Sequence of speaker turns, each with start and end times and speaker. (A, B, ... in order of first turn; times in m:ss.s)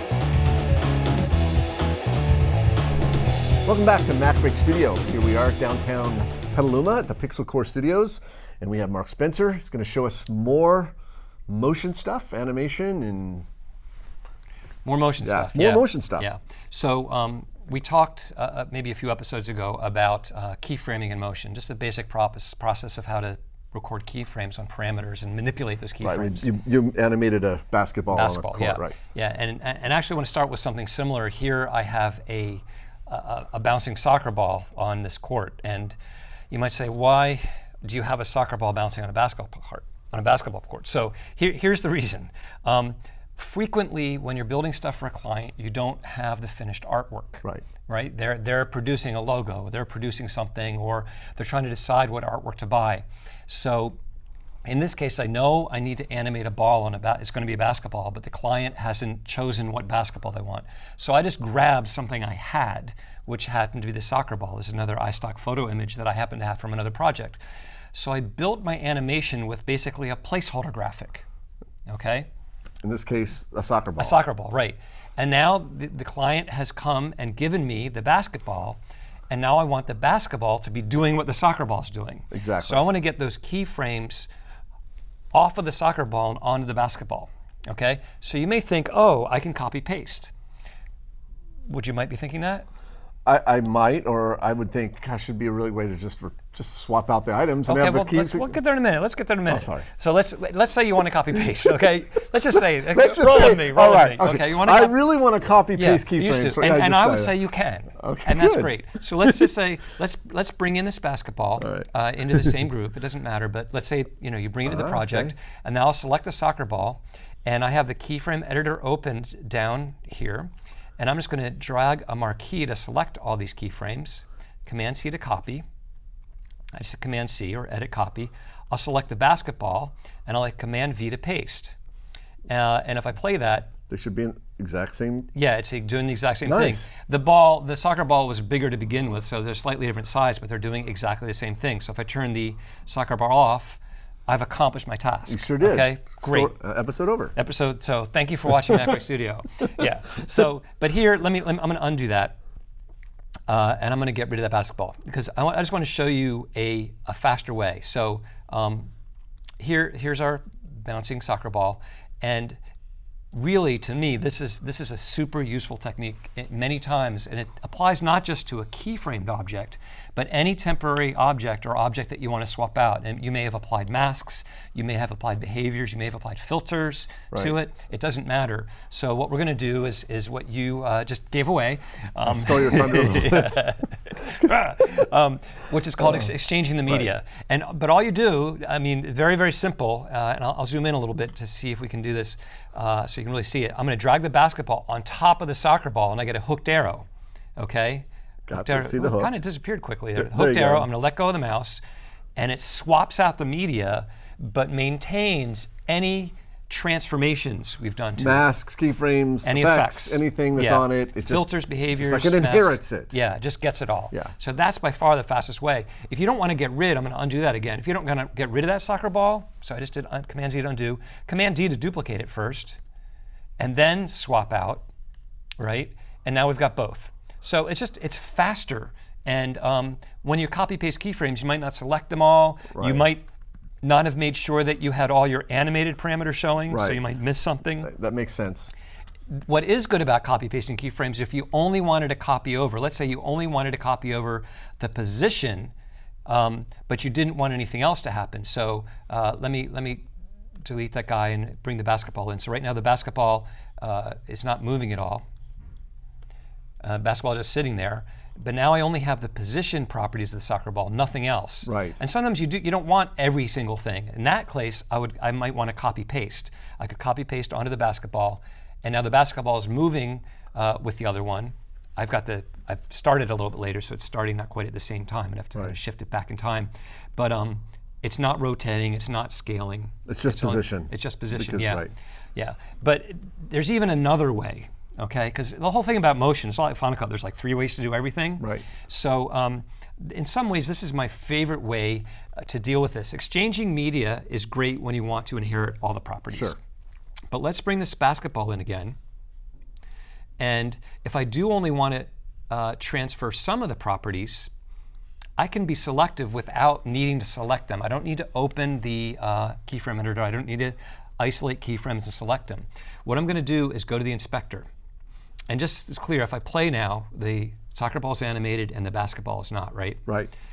0:03.6-0:10.9 A
0:11.5-0:13.5 A
0:14.8-0:26.5 B
0:15.2-0:16.3 A
0:26.0-0:29.0 A
0:28.1-0:36.0 B
0:36.5-0:54.0 B
0:54.6-1:07.4 B
1:07.9-1:11.3 B
1:11.9-1:12.3 B
1:12.8-1:14.2 A
1:14.0-1:24.3 B
1:22.3-1:22.9 A
1:25.3-1:30.3 B
1:31.7-1:32.7 B
1:33.2-1:38.5 A
1:37.7-1:45.0 B
1:39.5-1:39.9 A
1:42.9-1:47.4 A
1:45.7-2:05.6 B
1:48.0-1:49.5 A
1:51.6-1:52.5 A
1:54.6-1:55.3 A
2:06.7-2:11.8 B
2:12.5-2:13.7 B
2:13.9-2:15.3 A
2:15.3-2:26.5 B
2:16.4-2:16.9 A
2:25.3-2:27.4 A
2:27.4-2:32.4 B
2:33.5-2:38.9 B
2:39.6-2:42.6 B
2:43.3-3:21.8 B
3:02.3-3:03.6 A
3:18.5-3:19.3 A
3:20.2-3:20.9 A
3:22.4-3:28.5 B
3:28.2-3:33.2 A
3:29.4-3:42.8 B
3:43.6-3:44.9 B
3:45.6-3:53.3 B
3:52.8-3:53.1 A
3:53.8-3:57.9 B
3:56.7-3:57.0 A
3:57.8-3:58.7 A
3:59.3-4:05.7 B
4:06.3-4:10.1 B
4:10.6-4:15.2 B
4:16.8-4:56.6 B
4:21.6-4:22.0 A
4:40.1-4:41.9 A
4:48.4-4:48.7 A
4:56.3-4:56.6 A
4:57.3-4:59.0 B
5:00.4-5:04.5 B
5:05.4-5:14.7 B
5:15.5-5:20.0 B
5:20.1-5:20.3 A